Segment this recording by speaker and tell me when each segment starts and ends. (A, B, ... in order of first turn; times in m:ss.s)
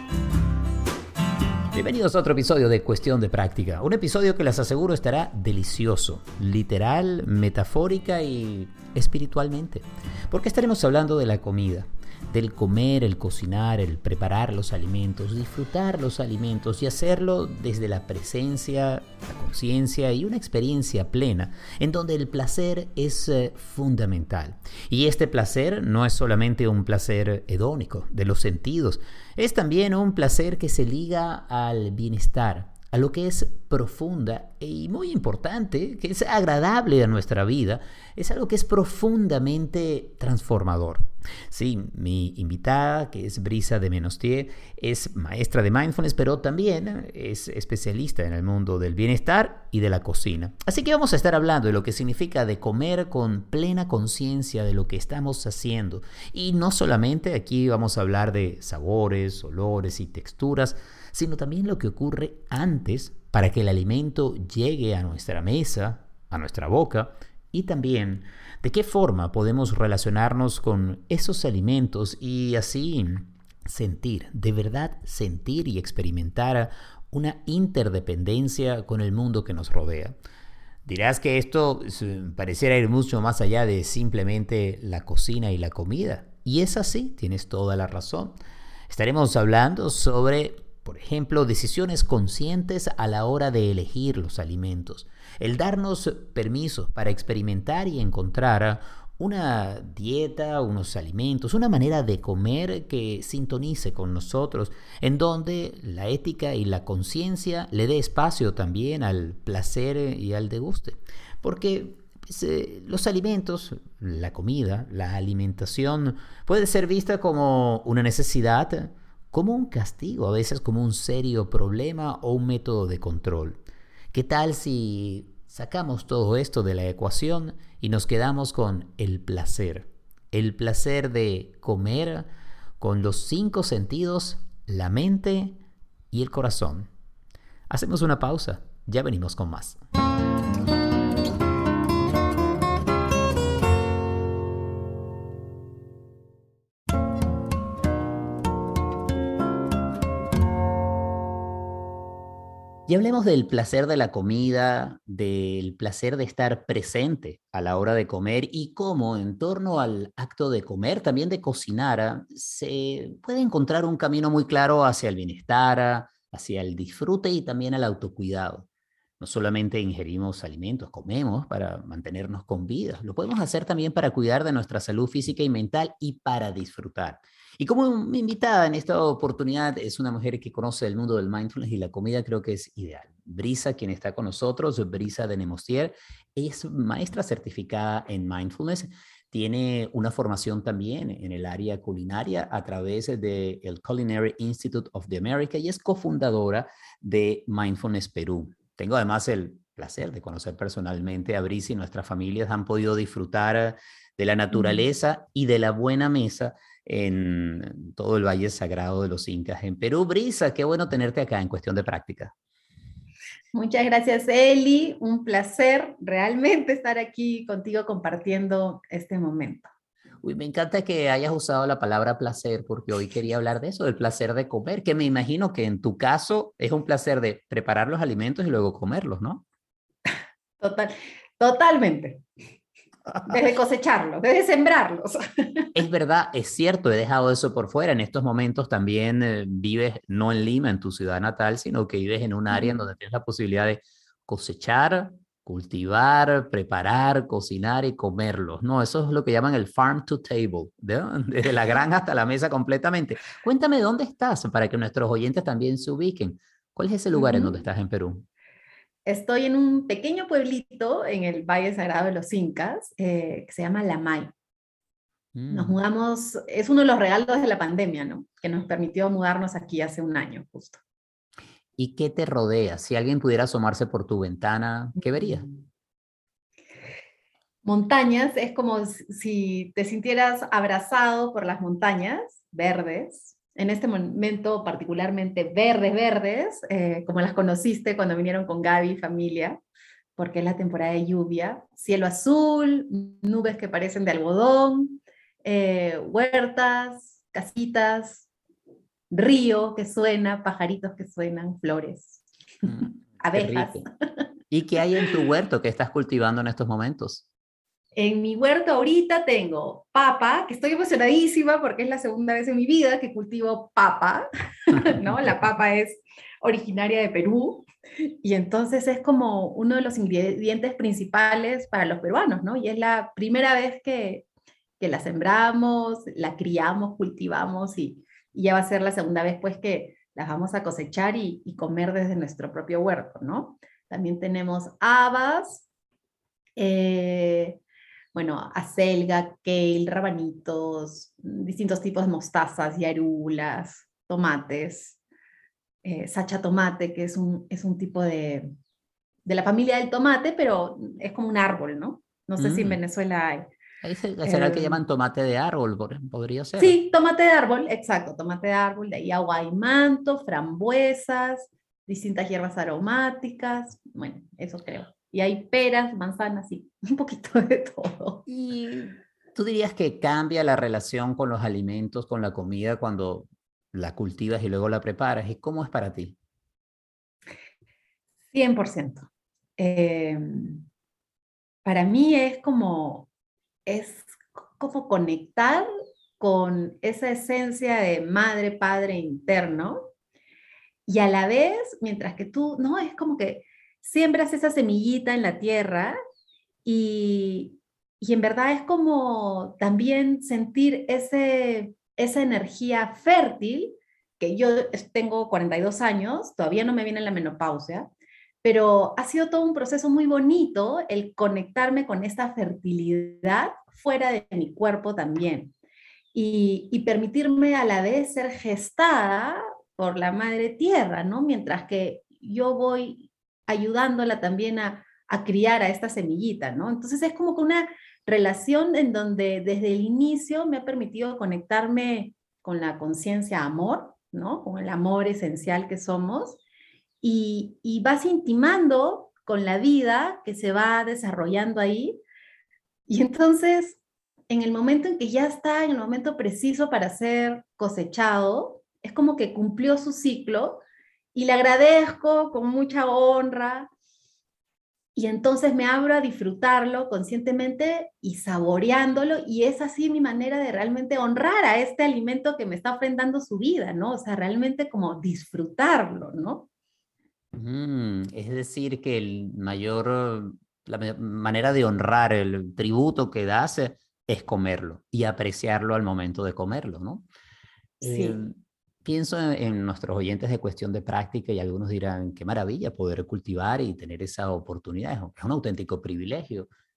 0:01.7-1:20.2 A
1:20.8-1:28.4 A
1:28.9-2:03.6 A
2:04.1-2:12.3 A
2:12.8-2:15.6 A
2:16.1-2:16.9 A
2:17.7-2:19.8 A
2:32.9-2:48.7 A
2:49.2-3:32.3 A
3:24.5-3:24.8 B
3:33.5-3:39.7 B
3:40.2-3:49.4 A
3:50.6-3:52.2 B
3:53.1-3:53.4 A
3:53.2-3:55.7 B
3:55.7-4:18.2 A
4:17.1-4:17.5 B
4:19.0-4:24.3 B
4:25.3-4:25.8 A
4:25.5-4:30.8 B
4:31.8-4:35.5 A
4:35.1-4:35.4 B
4:37.6-4:49.6 B
4:50.2-4:58.3 B
4:59.1-5:03.8 B
5:02.6-5:03.8 A
5:04.5-5:07.2 A
5:08.0-5:17.7 B
5:18.2-5:24.2 B
5:24.8-5:35.6 B
5:36.6-5:37.6 B
5:38.1-5:45.0 B
5:45.8-5:48.5 B
5:49.2-5:53.5 B
5:52.4-5:52.8 A
5:53.8-5:56.8 A
5:54.2-5:54.8 B
5:56.6-6:08.3 B
6:08.3-6:16.2 A
6:18.3-6:20.6 B
6:21.6-6:23.1 B
6:23.6-6:25.7 B
6:26.2-6:29.8 B
6:30.9-6:36.0 B
6:36.6-6:47.9 B
6:48.4-6:55.5 B
6:56.1-7:16.4 B
7:17.0-7:22.0 B
7:22.9-7:30.6 B
7:31.1-7:33.7 B
7:34.9-7:46.5 B
7:47.3-7:57.1 A
7:57.8-7:58.2 B
7:57.8-8:06.5 A